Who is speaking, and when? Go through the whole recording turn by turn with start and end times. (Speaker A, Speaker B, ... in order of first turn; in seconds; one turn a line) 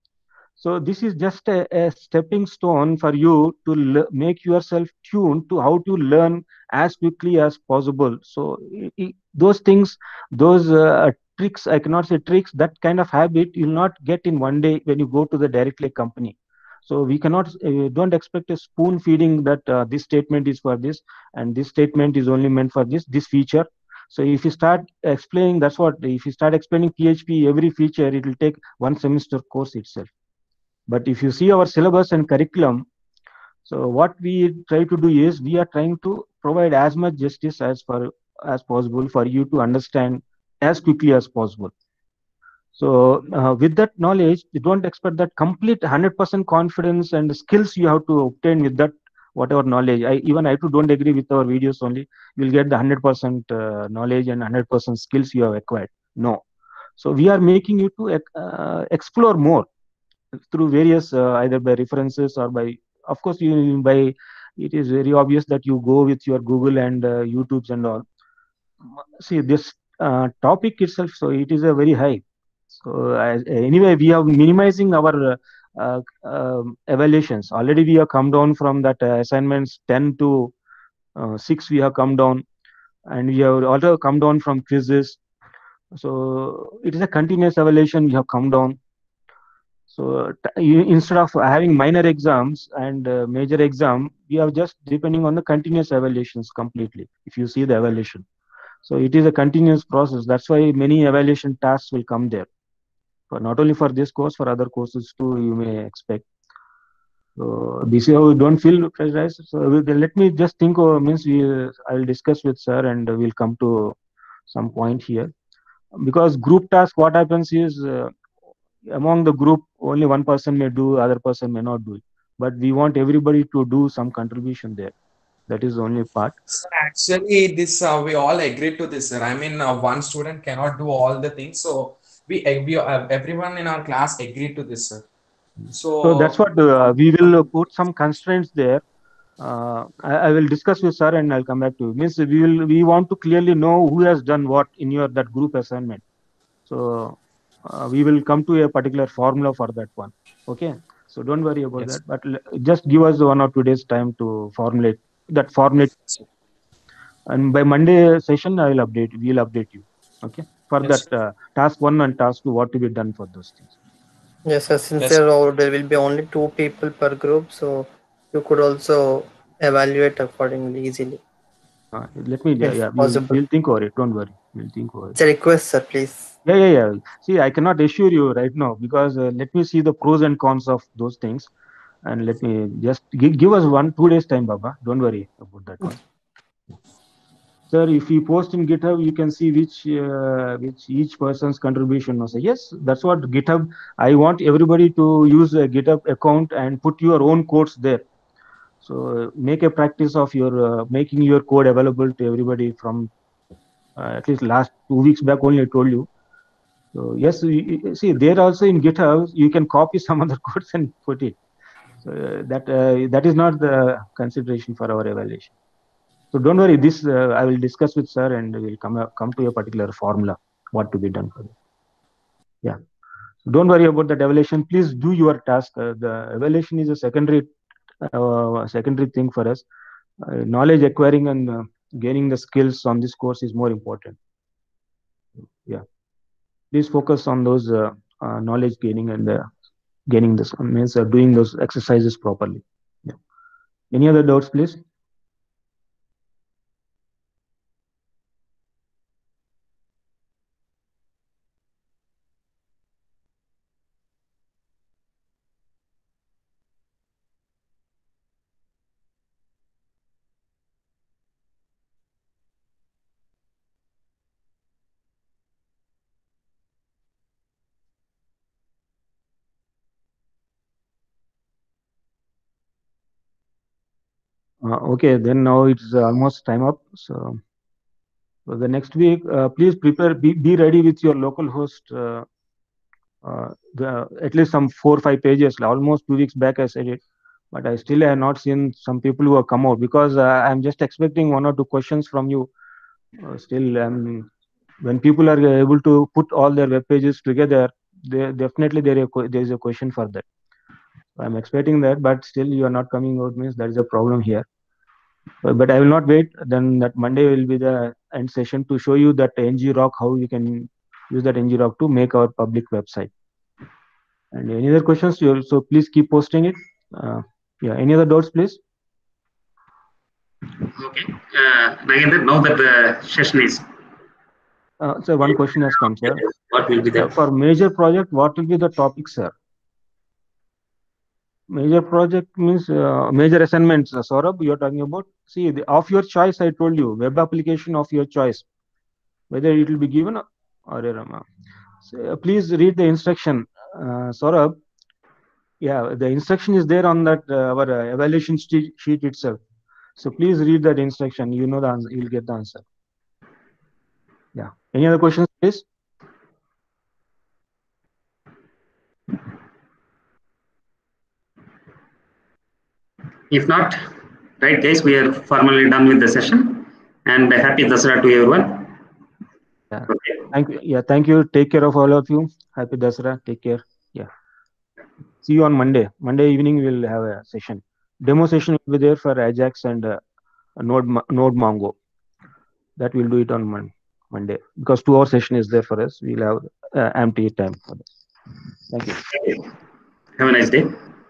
Speaker A: 0.6-30.1
Speaker A: 30.9-32.9
Speaker A: 33.6-41.7
Speaker A: 42.7-56.4
Speaker A: 57.0-59.7
Speaker A: 60.5-68.0
Speaker A: 69.2-72.2
Speaker A: 72.8-80.5
Speaker A: 81.2-82.4
Speaker A: 83.1-85.2
Speaker A: 85.9-88.8
Speaker A: 89.9-98.2
Speaker A: 98.8-102.5
Speaker A: 103.3-106.2
Speaker A: 107.4-114.0
Speaker A: 114.5-115.3
Speaker A: 116.0-118.1
Speaker A: 118.9-124.9
Speaker A: 125.5-126.3
Speaker B: 126.5-135.0
Speaker A: 135.6-138.8
Speaker B: 135.7-136.3
Speaker A: 139.4-146.0
Speaker A: 146.7-156.2
Speaker A: 157.3-163.7
Speaker C: 164.4-171.2
Speaker A: 171.9-175.2
Speaker C: 172.6-173.4
Speaker C: 175.2-176.3
Speaker A: 176.4-181.5
Speaker A: 182.0-186.0
Speaker A: 187.7-198.1
Speaker A: 198.8-203.1
Speaker A: 203.9-206.1
Speaker A: 206.9-211.4
Speaker A: 212.0-215.5
Speaker A: 216.3-221.5
Speaker A: 223.4-227.5
Speaker A: 228.0-229.6
Speaker A: 230.2-234.2
Speaker A: 236.7-239.5
Speaker A: 240.1-243.2
Speaker A: 243.9-244.8
Speaker A: 274.6-277.4
Speaker A: 278.5-282.2
Speaker A: 283.2-287.0
Speaker A: 287.5-292.5
Speaker A: 293.2-294.3
Speaker A: 294.8-300.2
Speaker A: 301.1-304.4
Speaker A: 305.4-313.1
Speaker A: 314.3-318.6
Speaker D: 320.6-323.7
Speaker A: 324.8-326.3
Speaker D: 326.2-327.1
Speaker A: 326.8-329.3
Speaker A: 331.5-338.4
Speaker A: 339.3-341.2
Speaker A: 341.8-344.6
Speaker A: 345.6-349.4
Speaker A: 350.0-352.6
Speaker A: 354.3-355.6
Speaker D: 363.3-368.8
Speaker A: 369.7-374.1
Speaker D: 369.9-370.1
Speaker A: 375.2-380.0
Speaker A: 380.6-381.7
Speaker A: 382.8-387.9
Speaker A: 388.7-389.0
Speaker D: 389.1-389.4
Speaker D: 390.2-390.8